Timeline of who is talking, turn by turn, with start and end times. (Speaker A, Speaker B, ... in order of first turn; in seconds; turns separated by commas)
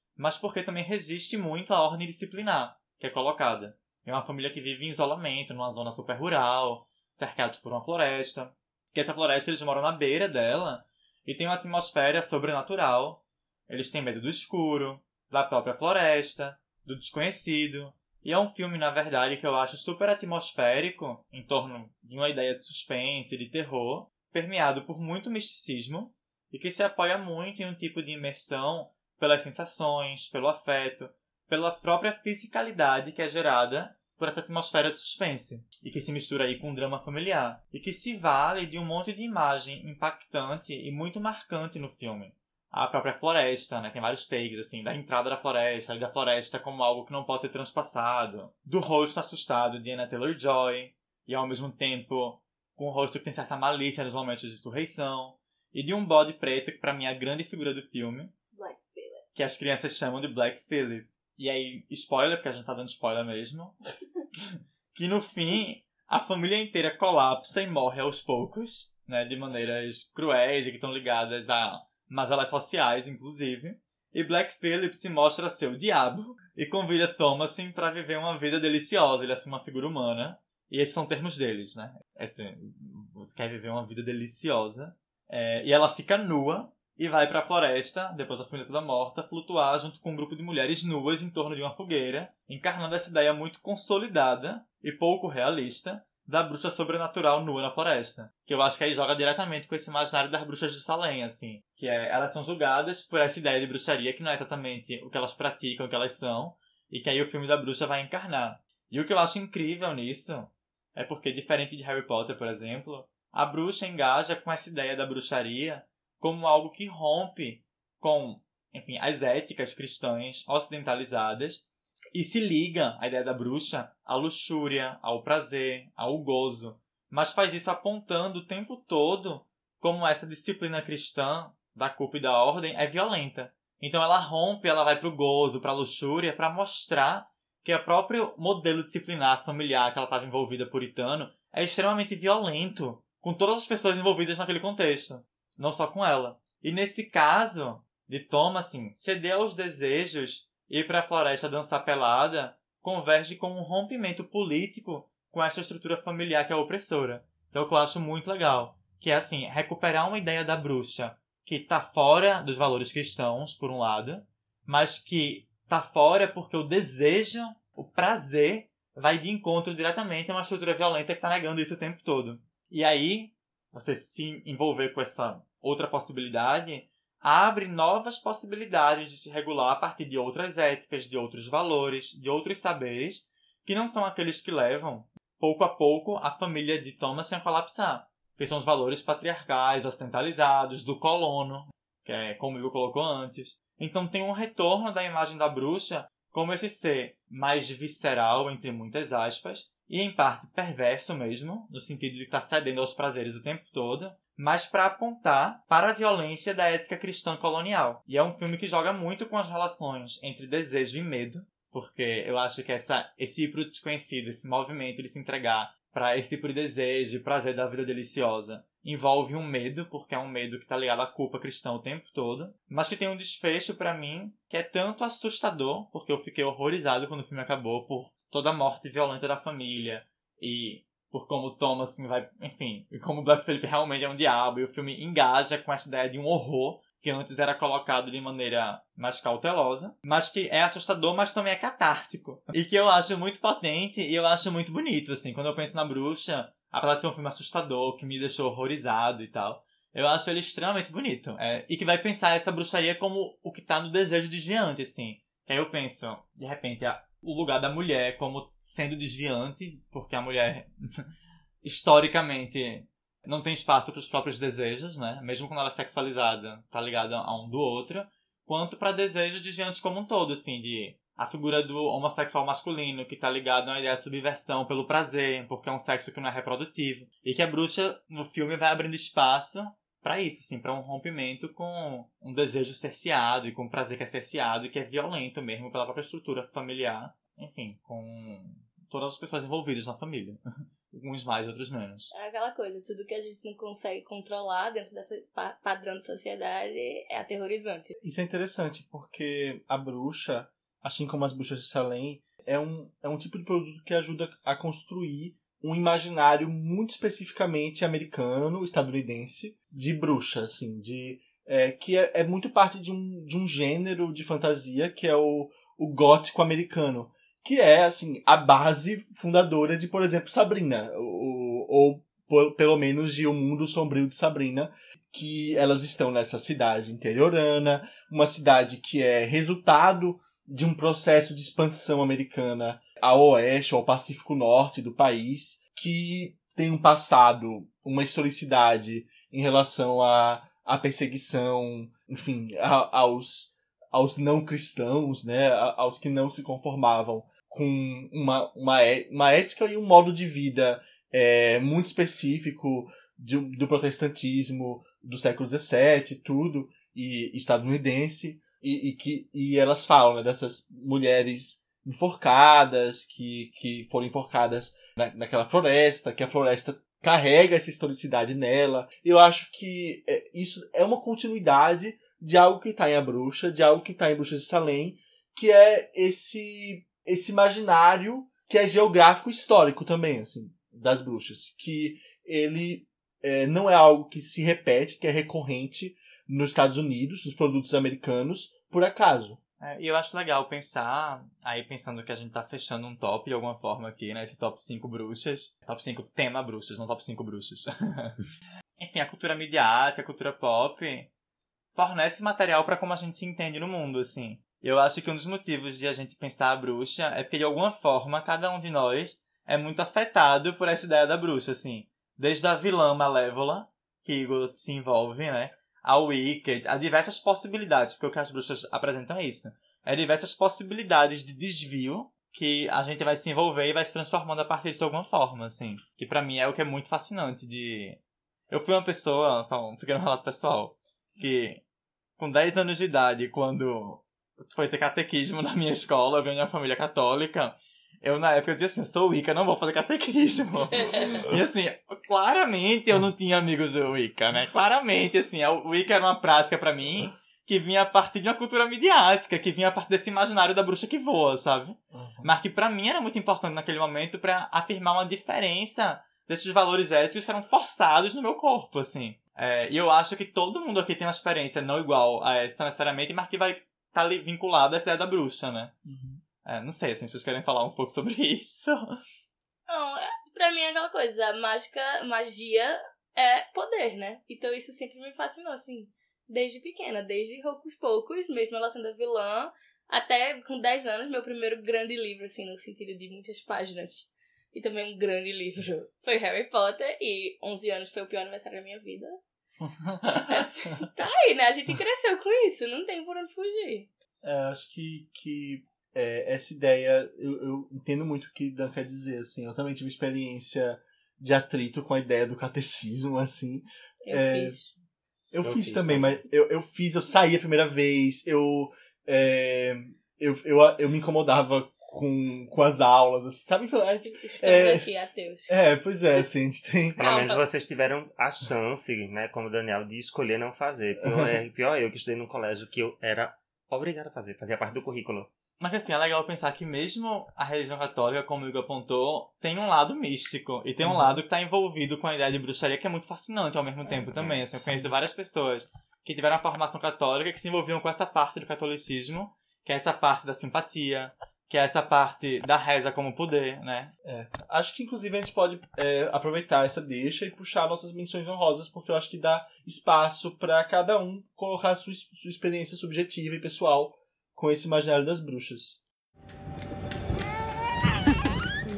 Speaker A: 0.2-58.3, Speaker B: 58.5-59.2, Speaker A: 59.4-63.8, Speaker A: 64.9-261.1, Speaker A: 261.6-290.4, Speaker A: 290.9-292.1, Speaker B: 292.1-297.9, Speaker C: 298.0-389.4, Speaker A: 389.6-398.2, Speaker A: 398.8-401.1, Speaker A: 401.7-428.0, Speaker A: 428.5-431.6, Speaker A: 432.2-465.7, Speaker B: 440.8-441.1, Speaker C: 451.9-452.3, Speaker C: 465.9-466.2, Speaker A: 466.4-468.9, Speaker B: 469.7-489.2, Speaker C: 489.9-490.5, Speaker B: 490.3-493.9, Speaker C: 494.2-504.6, Speaker B: 504.1-504.7, Speaker C: 505.3-514.9, Speaker D: 505.4-506.2, Speaker B: 514.1-515.6, Speaker C: 515.5-517.0, Speaker B: 517.0-517.4, Speaker D: 517.0-525.3, Speaker C: 521.0-521.3, Speaker A: 525.6-543.9, Speaker C: 530.9-531.1, Speaker C: 544.0-555.8